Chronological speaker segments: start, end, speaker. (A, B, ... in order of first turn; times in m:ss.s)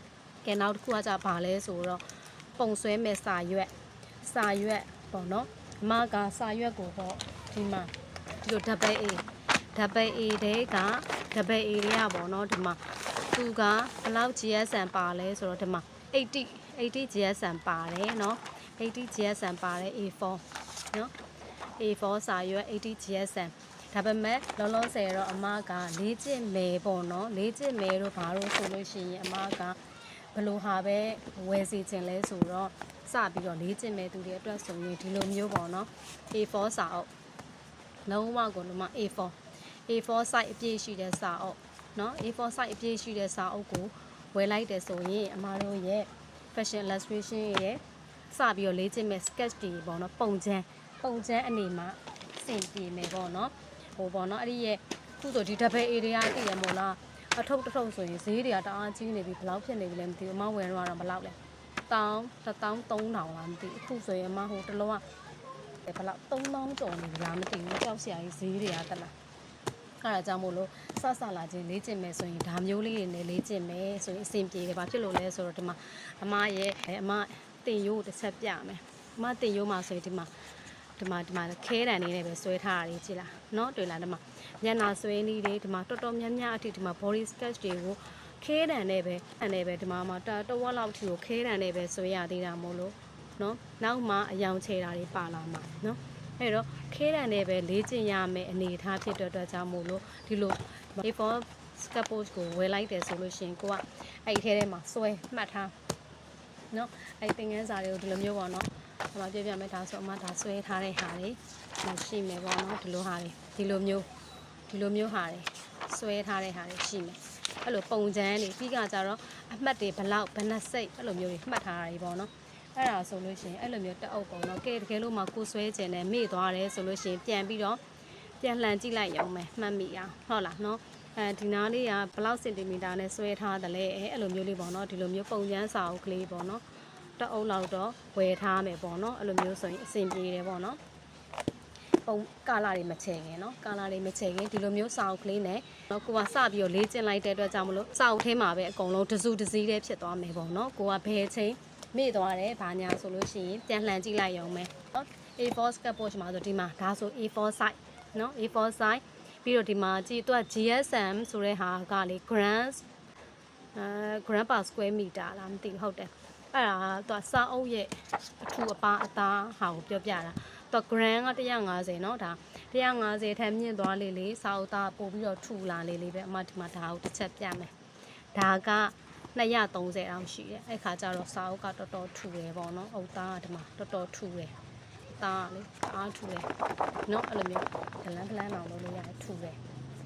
0:00.4-0:02.0 A
0:02.6-0:03.7 A
0:04.2-0:07.9 A
0:08.4-0:12.8 A
0:13.3-0:21.1 A
0:21.8-0:29.8 A
0:30.3-0:37.1 A
0:38.1-0:39.4 A
0:39.9-1:01.4 A
1:01.9-1:05.0 A
1:05.8-1:09.1 A
1:10.0-1:20.3 A
1:21.0-1:45.7 A
1:46.7-1:54.1 A
1:54.7-2:07.8 A
2:08.4-2:16.6 A
2:17.2-2:20.8 A
2:22.0-2:42.8 A
2:43.8-2:57.7 A
2:58.3-3:04.5 A
3:05.1-3:06.5 A
3:07.1-3:09.6 A